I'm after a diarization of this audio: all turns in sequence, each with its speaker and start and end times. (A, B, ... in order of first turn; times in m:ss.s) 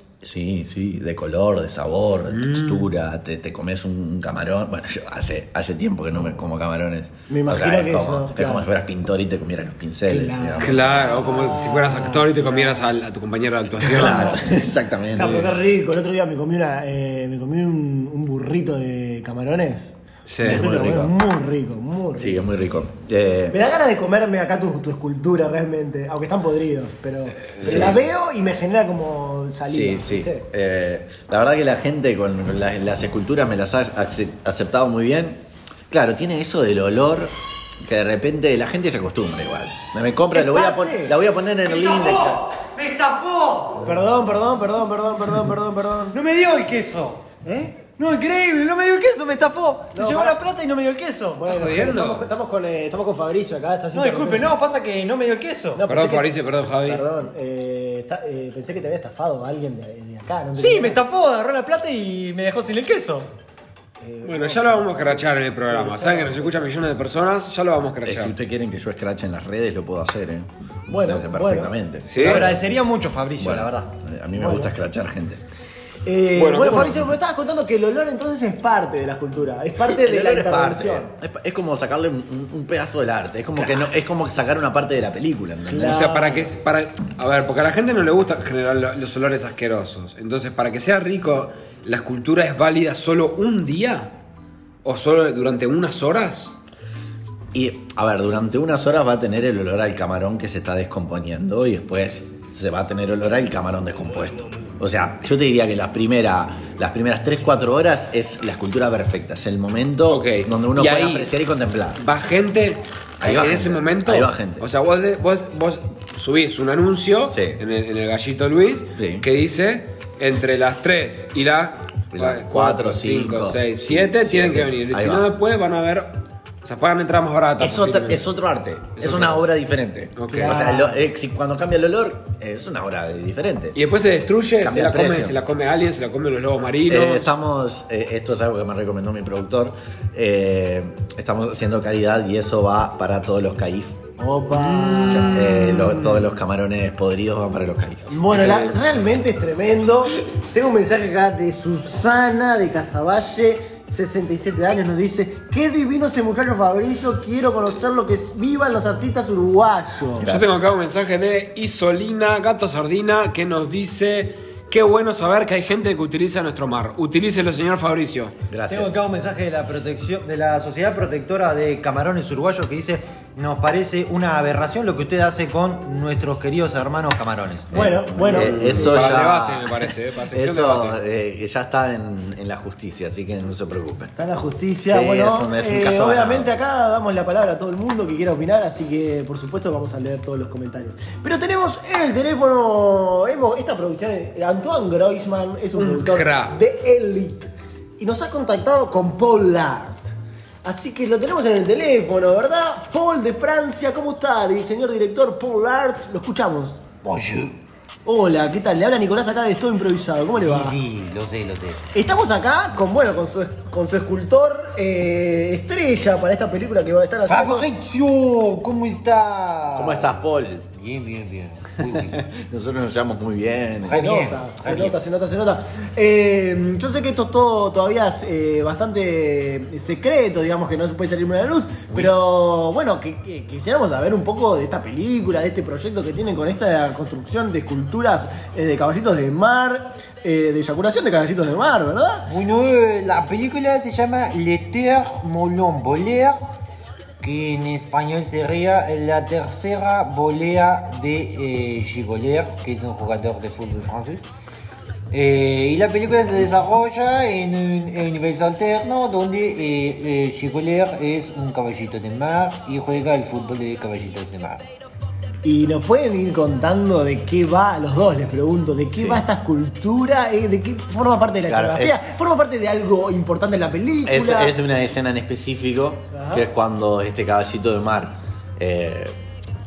0:00.2-0:10.8 A
0:02.3-0:02.9 B
0:07.3-0:08.6 C
0:10.1-0:12.9 C
0:10.6-0:14.4 B
0:13.8-0:14.5 C
0:13.8-0:15.5 A
0:15.1-0:22.5 C
0:15.2-0:15.5 B
0:20.2-0:20.7 B
0:20.4-0:21.2 A
0:22.1-0:23.6 A
0:23.5-0:30.4 C
0:27.5-0:28.0 B
0:27.6-0:28.0 A
0:29.6-0:42.4 A
0:40.3-0:41.1 C
0:41.6-0:43.9 D
0:43.8-0:46.2 C
0:46.1-0:47.2 D
0:47.4-0:47.8 C
0:47.9-0:51.5 D
0:49.9-0:50.4 C
0:51.4-0:54.5 C
0:51.5-0:52.3 B
0:53.9-0:55.8 D
0:55.7-1:01.0 C
0:55.9-0:57.0 B
1:00.6-1:03.3 D
1:04.0-1:06.7 C
1:04.2-1:08.3 B
1:08.0-1:12.6 A
1:10.9-1:11.7 C
1:12.0-1:12.5 B
1:12.2-1:13.9 D
1:13.4-1:15.4 A
1:14.4-1:14.7 C
1:16.0-1:21.1 C
1:16.3-1:16.9 B
1:16.7-1:17.1 A
1:19.9-1:26.1 A
1:25.7-1:26.5 C
1:25.8-1:34.1 B
1:34.8-1:36.6 B
1:37.5-1:52.0 A
1:50.1-1:51.3 B
1:52.0-2:08.2 B
1:53.2-1:54.7 A
1:57.2-1:57.6 A
1:59.0-1:59.3 A
2:02.1-2:05.3 A
2:07.6-2:13.8 A
2:09.0-2:09.5 B
2:10.2-2:10.7 B
2:10.3-2:11.0 C
2:13.7-2:17.3 B
2:14.6-2:15.4 A
2:16.9-2:24.0 A
2:24.2-2:25.5 C
2:24.5-2:26.4 B
2:25.3-2:28.2 A
2:28.1-2:40.3 C
2:28.3-2:28.8 B
2:40.2-2:40.5 A
2:40.2-2:48.3 B
2:48.5-2:49.0 A
2:48.7-2:57.8 D
2:57.7-2:59.2 C
2:57.7-3:04.1 A
2:58.3-3:01.0 B
3:04.2-3:20.1 C
3:04.9-3:06.5 A
3:15.7-3:16.6 B
3:20.6-3:26.8 C
3:27.0-3:27.5 D
3:28.0-3:30.8 C
3:30.4-3:31.8 D
3:31.9-3:37.7 C
3:37.3-3:40.1 D
3:39.8-3:40.7 A
3:40.8-3:42.2 D
3:41.8-3:44.0 A
3:43.8-4:02.3 C
3:43.9-3:44.9 D
4:02.3-4:06.4 E
4:07.2-4:14.2 E
4:15.1-4:24.6 E
4:25.4-4:34.5 C
4:28.9-4:29.2 A
4:31.4-4:32.0 A
4:34.0-4:39.2 A
4:36.1-4:36.4 C